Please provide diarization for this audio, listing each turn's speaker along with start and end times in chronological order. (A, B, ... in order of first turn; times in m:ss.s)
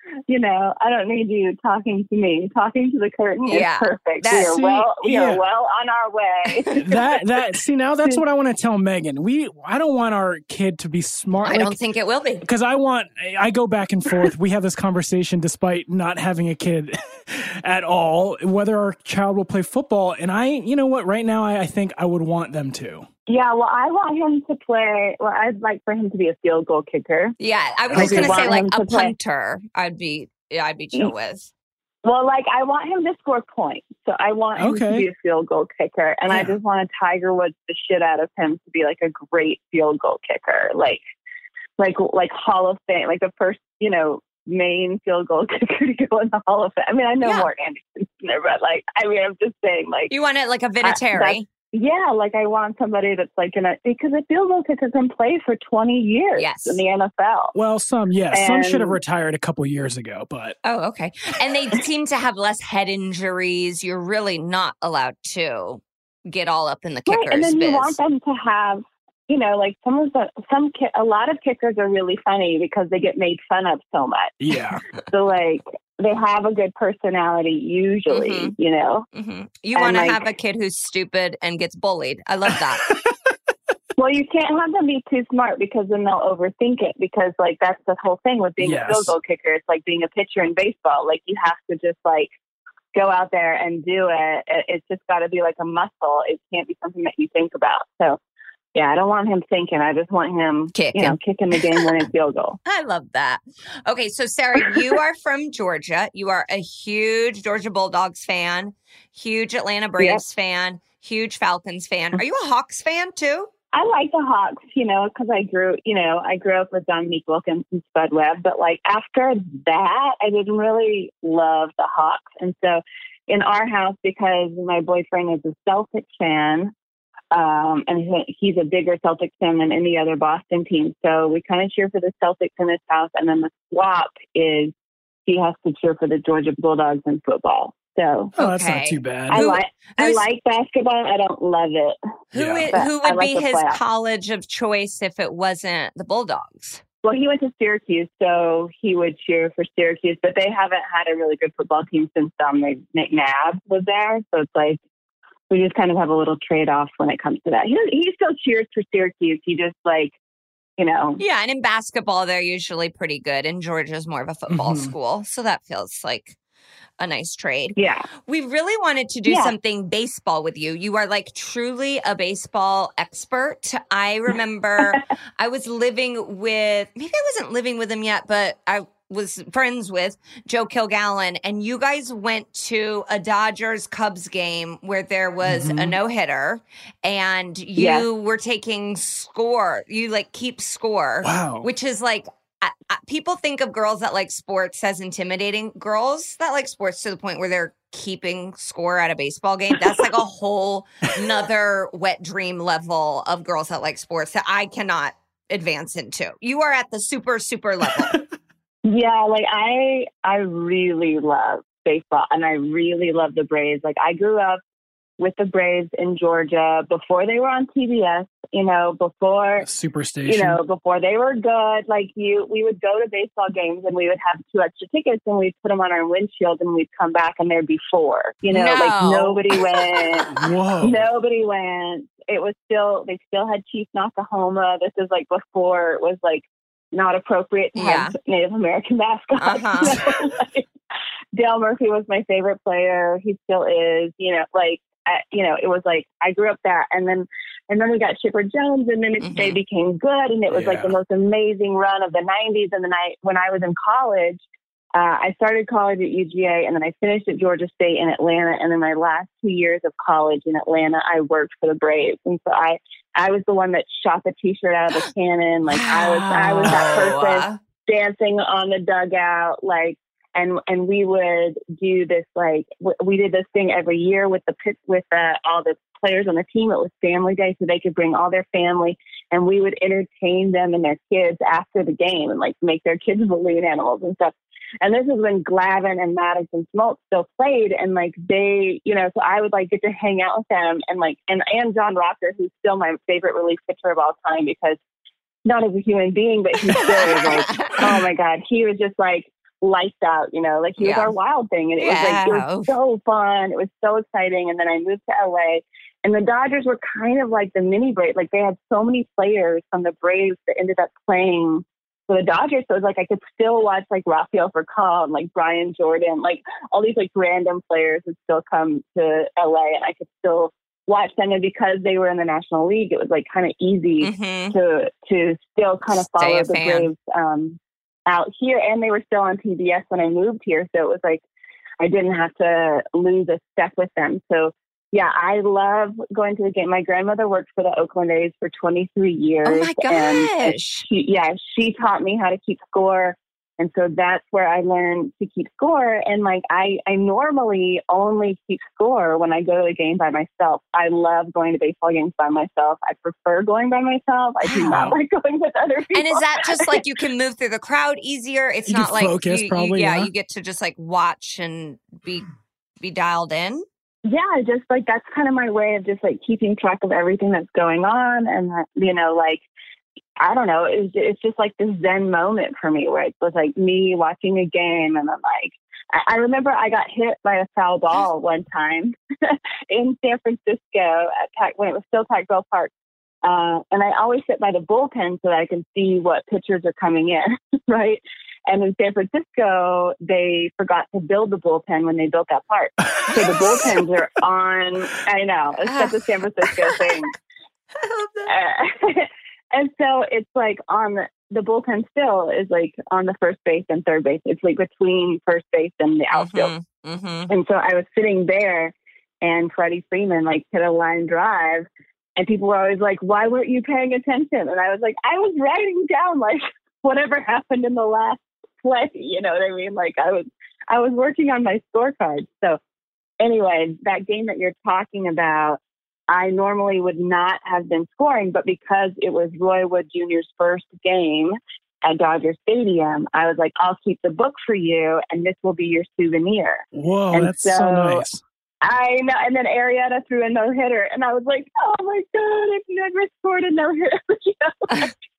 0:00.3-0:07.0 A
0:03.5-0:04.6 B
0:04.3-0:05.4 C
0:06.8-0:11.8 C
0:11.4-0:12.5 B
0:12.4-0:23.1 C
0:23.3-0:27.4 A
0:27.4-0:31.5 B
0:27.9-0:28.6 C
0:27.9-0:29.1 A
0:32.0-0:41.0 A
0:34.6-0:35.1 C
0:36.3-0:36.5 C
0:41.8-0:50.1 A
0:47.2-0:47.5 B
0:50.1-0:51.5 B
0:50.8-0:57.6 A
0:56.4-0:56.8 B
0:57.6-1:00.6 C
0:58.3-0:59.0 A
1:00.6-1:08.0 B
1:07.1-1:14.4 A
1:14.4-1:14.8 C
1:15.1-1:19.1 A
1:18.1-1:18.5 B
1:19.1-1:22.9 B
1:19.8-1:20.2 A
1:24.0-1:32.3 A
1:28.6-1:29.2 C
1:32.9-1:38.2 A
1:38.8-1:42.6 A
1:40.7-1:42.1 B
1:42.6-1:53.5 B
1:53.7-2:06.7 A
2:07.3-2:14.7 A
2:15.2-2:18.3 A
2:18.4-2:19.4 C
2:18.4-2:20.2 B
2:19.3-2:22.0 A
2:22.3-2:26.8 B
2:22.3-2:22.7 C
2:22.7-2:23.8 A
2:27.0-2:34.8 A
2:35.5-2:40.2 A
2:40.8-2:41.2 A
2:41.2-2:46.4 B
2:44.5-2:44.9 C
2:47.0-2:47.8 B
2:47.8-2:48.1 A
2:48.3-3:28.2 B
2:49.2-2:49.5 A
3:05.4-3:06.0 C
3:07.8-3:08.0 A
3:11.2-3:11.7 C
3:28.8-3:34.6 A
3:35.2-3:39.6 A
3:39.6-3:40.6 C
3:40.2-3:50.3 A
3:48.5-3:50.2 B
3:50.3-3:51.0 C
3:50.8-4:00.6 A
3:57.8-3:58.1 B
3:59.4-4:00.0 B
4:01.3-4:14.4 A
4:09.2-4:09.6 B
4:10.5-4:11.0 C
4:14.9-4:54.8 A
4:25.6-4:27.6 B
4:55.4-5:31.2 A
4:56.8-4:58.0 B
5:00.8-5:01.1 B
5:01.8-5:02.7 B
5:24.0-5:24.6 B
5:26.1-5:26.9 B
5:31.8-5:56.8 A
5:39.4-5:40.9 B
5:54.4-5:54.8 B
5:54.6-5:55.0 C
5:55.9-6:02.3 B
5:58.7-6:00.1 C
6:02.8-6:03.6 B
6:04.0-6:09.4 A
6:10.2-6:22.7 A
6:23.2-6:37.1 A
6:35.7-6:36.0 B
6:37.7-6:38.4 B
6:38.2-6:46.5 A
6:46.1-6:47.3 B
6:47.3-6:51.6 A
6:52.2-7:02.6 A
7:03.2-7:18.0 A
7:16.7-7:18.2 C
7:18.6-7:24.9 A
7:24.7-7:24.9 B